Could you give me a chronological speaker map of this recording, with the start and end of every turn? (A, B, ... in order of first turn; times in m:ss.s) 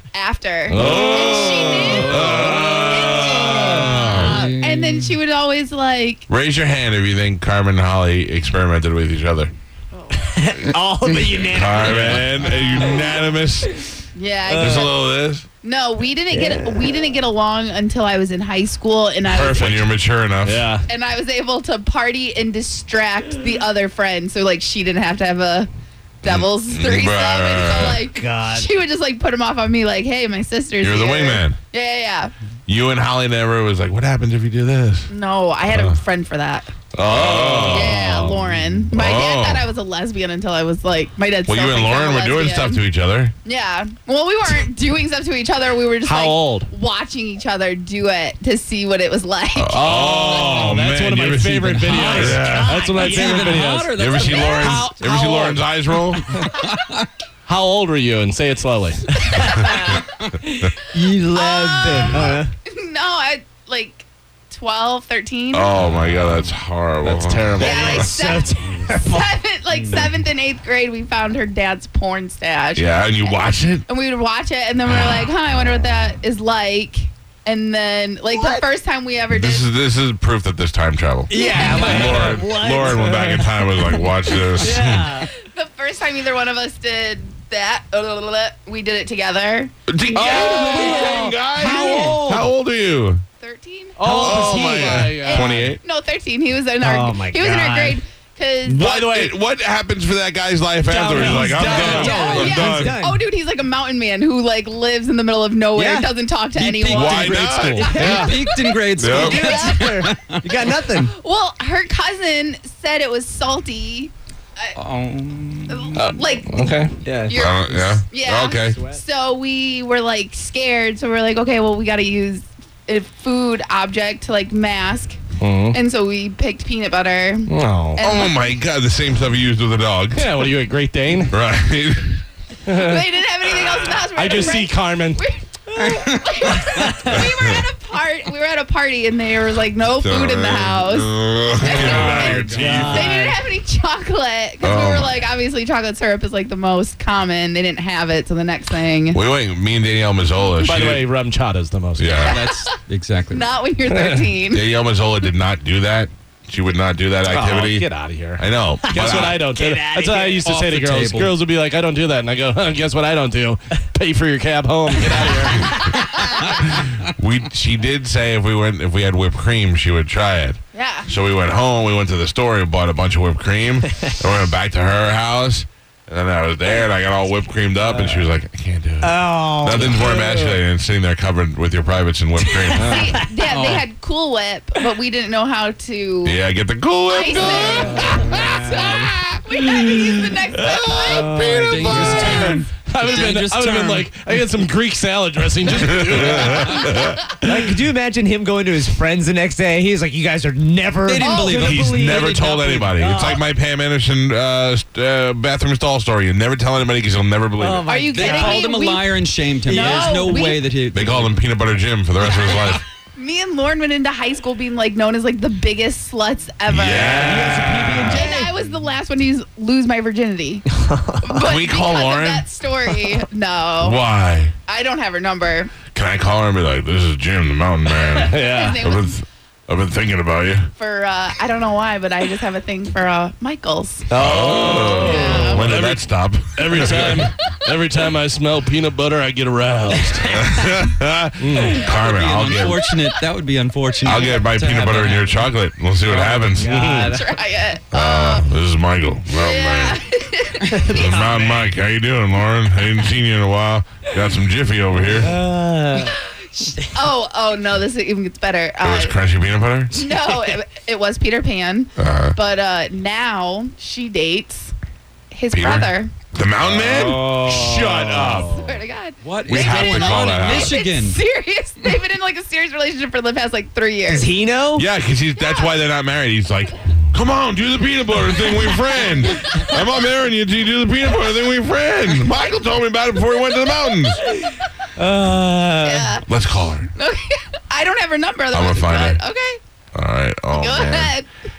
0:00.1-0:06.2 A
0:00.7-0:02.2 B
0:00.7-0:04.5 C
0:01.2-0:04.4 D
0:03.5-0:05.1 E
0:06.3-0:09.5 C
0:09.9-0:10.3 A
0:10.1-0:12.3 D
0:11.4-0:13.7 C
0:11.8-0:12.3 B
0:14.1-0:15.0 A
0:14.5-0:14.9 D
0:14.6-0:15.4 C
0:15.6-0:19.9 A
0:16.3-0:17.0 D
0:19.2-0:20.7 C
0:20.4-0:20.8 B
0:20.9-0:25.7 A
0:26.2-0:32.3 A
0:26.2-0:28.0 C
0:28.1-0:28.7 D
0:30.8-0:31.6 C
0:32.7-0:35.1 C
0:35.1-0:36.7 A
0:35.7-0:36.0 C
0:36.9-0:38.2 C
0:37.0-0:38.4 B
0:37.7-0:42.8 A
0:38.9-0:39.7 C
0:41.4-0:43.3 C
0:43.4-0:50.6 A
0:46.0-0:46.7 B
0:49.6-0:52.8 C
0:49.7-0:54.0 B
0:51.6-0:55.2 E
0:52.0-0:53.6 D
0:54.0-0:56.2 C
0:54.2-0:55.3 A
0:56.1-0:57.1 E
0:57.4-0:59.1 B
0:59.1-0:59.9 A
0:59.3-1:02.5 D
0:59.4-0:59.8 C
0:59.8-1:00.3 E
1:01.3-1:05.8 A
1:05.5-1:08.1 C
1:05.8-1:06.5 E
1:07.0-1:08.2 B
1:07.6-1:19.7 A
1:07.6-1:09.3 D
1:09.7-1:10.2 E
1:12.7-1:13.8 C
1:14.8-1:15.3 C
1:18.3-1:18.6 D
1:19.3-1:25.0 C
1:21.3-1:25.3 D
1:21.4-1:22.2 A
1:21.6-1:23.4 B
1:25.2-1:29.7 A
1:29.9-1:33.2 C
1:30.1-1:32.5 D
1:30.1-1:31.3 B
1:31.6-1:32.2 E
1:33.4-1:34.2 A
1:34.0-1:35.7 B
1:34.0-1:35.1 D
1:34.2-1:35.8 C
1:35.1-1:38.8 A
1:36.8-1:38.0 D
1:38.6-1:39.4 B
1:38.7-1:43.0 C
1:40.8-1:43.2 D
1:41.3-1:42.2 B
1:41.3-1:42.5 E
1:41.9-1:50.0 A
1:45.7-1:46.1 D
1:46.5-1:50.5 E
1:46.9-1:47.9 C
1:47.8-1:48.4 D
1:48.0-1:48.3 B
1:49.0-1:49.4 C
1:49.0-1:51.1 D
1:51.0-1:54.7 A
1:54.8-1:56.2 E
1:55.7-2:08.5 A
1:56.0-1:57.0 B
1:57.0-1:58.0 D
1:57.3-1:58.8 C
1:58.7-1:59.0 D
2:05.4-2:05.8 B
2:07.5-2:08.0 B
2:08.0-2:10.3 C
2:10.1-2:11.4 B
2:11.3-2:12.2 C
2:12.6-2:13.0 B
2:12.7-2:29.2 A
2:14.1-2:15.2 B
2:15.7-2:16.8 E
2:17.0-2:17.6 C
2:20.0-2:23.2 C
2:21.6-2:23.1 E
2:21.8-2:23.3 D
2:21.9-2:23.1 B
2:24.6-2:25.2 C
2:29.1-2:31.0 C
2:30.6-2:30.9 A
2:30.6-2:32.5 B
2:32.0-2:32.4 C
2:32.1-2:32.7 A
2:32.2-2:33.5 E
2:33.3-2:34.6 A
2:33.8-2:34.3 B
2:34.5-2:37.8 C
2:37.2-2:45.8 B
2:37.3-2:37.6 D
2:38.4-2:39.4 C
2:38.8-2:40.4 D
2:40.4-2:41.3 E
2:45.7-2:46.2 D
2:46.4-3:03.2 C
2:50.7-2:51.1 A
2:57.8-2:58.3 D
2:59.0-3:00.6 D
3:02.6-3:03.3 D
3:02.8-3:03.1 B
3:02.8-3:06.4 A
3:03.4-3:03.9 E
3:06.2-3:12.6 C
3:07.1-3:11.4 A
3:07.4-3:09.1 D
3:11.0-3:12.6 D
3:11.4-3:14.1 E
3:12.8-3:16.8 B
3:15.8-3:17.6 C
3:17.4-3:23.4 D
3:21.0-3:22.9 E
3:21.5-3:27.8 C
3:27.6-3:28.7 D
3:27.9-3:29.1 A
3:28.1-3:31.4 E
3:29.6-3:30.3 D
3:29.7-3:30.6 A
3:30.9-3:32.8 C
3:33.2-3:40.6 A
3:36.7-3:38.3 C
3:36.9-3:38.5 D
3:40.9-3:41.3 D
3:41.2-3:44.0 A
3:41.4-3:42.4 C
3:43.8-3:44.5 C
3:44.7-3:45.8 A
3:45.9-3:50.7 C
3:48.1-3:49.1 A
3:48.3-3:48.8 B
3:50.8-3:54.1 A
3:54.1-3:57.3 C
3:54.1-4:00.4 B
3:55.0-3:55.6 A
4:00.2-4:02.9 C
4:01.4-4:01.8 B
4:01.8-4:05.4 E
4:04.0-4:07.1 C
4:06.2-4:07.3 D
4:07.0-4:08.5 A
4:07.9-4:10.0 C
4:09.3-4:10.9 A
4:10.7-4:11.7 D
4:10.9-4:15.3 C
4:15.1-4:16.1 D
4:16.0-4:19.2 A
4:18.8-4:20.0 C
4:19.9-4:24.7 A
4:22.0-4:22.4 C
4:25.3-4:26.1 A
4:25.5-4:28.6 C
4:26.7-4:27.5 E
4:27.0-4:28.5 D
4:28.4-4:34.3 A
4:29.2-4:31.2 E
4:29.5-4:30.8 C
4:34.1-4:34.9 D
4:34.8-4:44.2 C
4:35.4-4:35.7 A
4:39.2-4:39.7 A
4:45.0-4:46.2 D
4:45.8-4:46.2 A
4:46.3-4:46.9 C
4:46.9-4:49.6 A
4:48.5-4:49.2 C
4:49.9-4:51.1 C
4:50.5-4:51.3 A